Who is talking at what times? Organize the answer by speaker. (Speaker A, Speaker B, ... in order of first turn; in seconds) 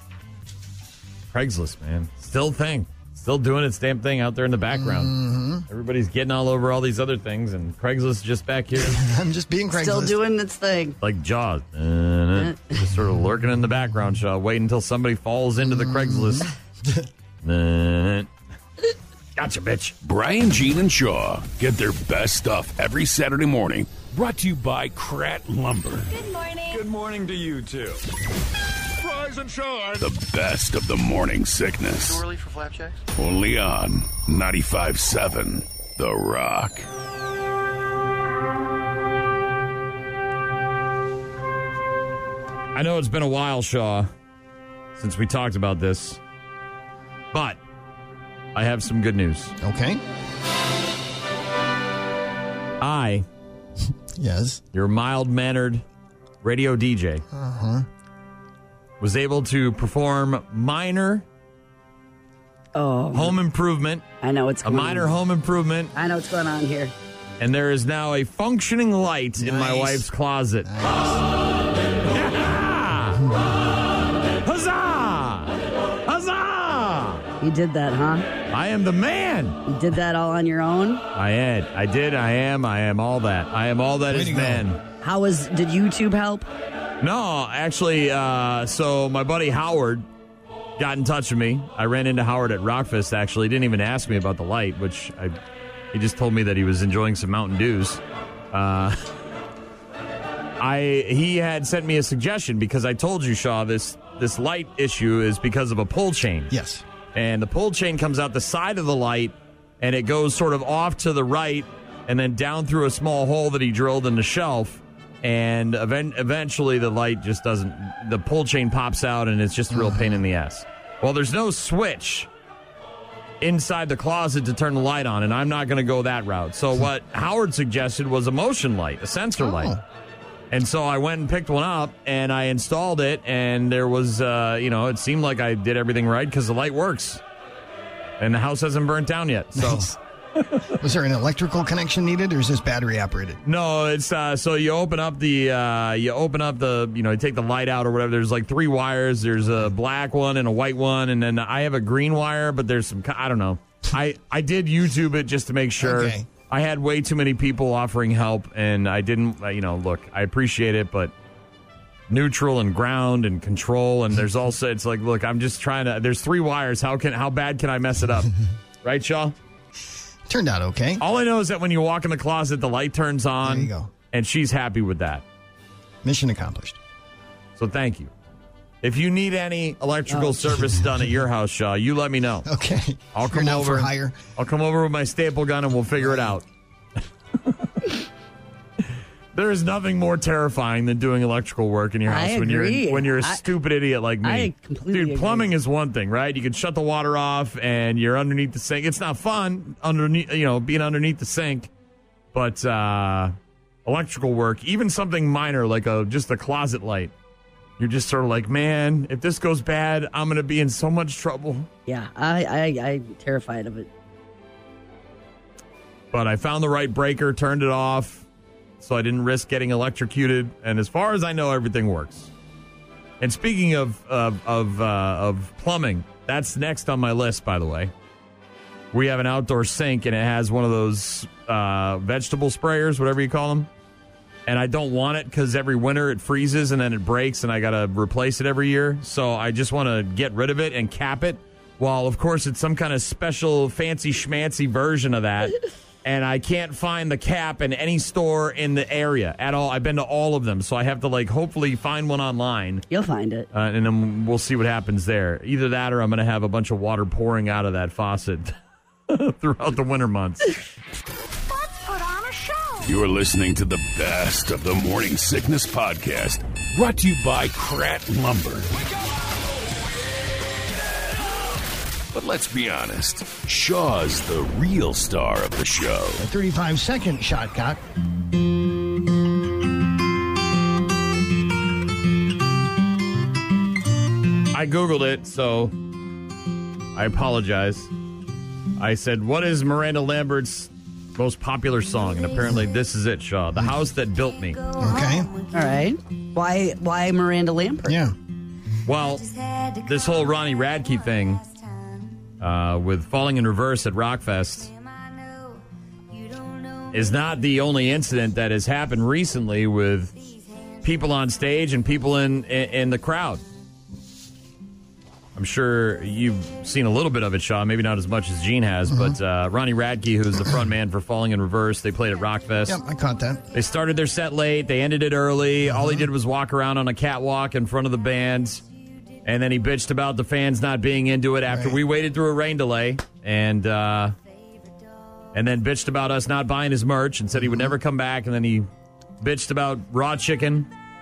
Speaker A: 1.3-5.1, 5.7-9.0, 11.0-16.5, 17.4-18.3, 19.4-19.9, 26.8-27.9, 42.7-44.1, 45.0-46.2, 47.3-47.6, 48.5-49.5, 52.8-53.2, 54.7-55.8, 56.4-57.2, 59.0-61.2, 63.1-64.0, 64.6-65.9, 67.4-70.7, 72.0-73.3, 74.4-77.2, 78.5-79.6, 81.1-84.8, 87.0-90.0, 90.8-95.4, 95.9-98.0, 98.5-99.1, 100.6-106.5, 107.1-122.3, 123.4-129.8, 130.5-137.2, 138.2-140.7, 143.4-161.1, 162.1-168.3, 168.8-169.3, 171.0-175.2, 177.6-178.1, 178.8-182.5, 183.1-186.4, 187.4-187.9, 189.3-201.7, 202.3-203.3, 203.8-207.1, 207.8-211.7, 216.1-218.2, 218.8-222.3, 223.2-227.9, 228.9-233.7, 234.5-252.8, 253.5-258.5, 259.1-260.6, 284.5-285.7, 286.9-287.9, 288.8-294.7, 298.9-301.4, 302.4-304.7, 306.9-310.2, 310.8-313.4, 315.4-322.8, 323.5-328.6, 329.2-334.1, 335.3-338.7, 339.2-340.7
Speaker B: 4.7-5.6, 8.8-10.2, 15.6-17.1, 49.6-50.0, 54.1-54.6, 57.3-57.9, 69.4-70.1, 70.6-71.2, 84.1-84.7, 106.5-106.8, 119.7-120.2, 129.4-129.8, 139.5-139.9, 140.8-143.4, 155.8-156.3, 170.3-171.0, 173.4-173.9, 176.0-176.8, 182.4-184.2, 186.0-186.4, 276.2-277.8, 294.8-295.3, 297.9-298.1, 318.9-319.1, 322.6-323.4, 331.5-331.8, 337.4-337.7
Speaker C: 9.7-11.0, 62.7-63.4, 64.2-65.1, 65.9-66.9, 77.4-78.2, 79.7-81.0, 85.0-86.5, 180.1-180.4, 192.1-193.4, 194.2-195.5, 211.9-213.9, 252.9-253.5, 295.5-298.0
Speaker D: 20.0-26.2, 29.9-32.2, 33.1-36.9, 262.8-268.7, 272.1-276.2
Speaker E: 27.2-27.5, 29.0-29.8, 32.0-33.0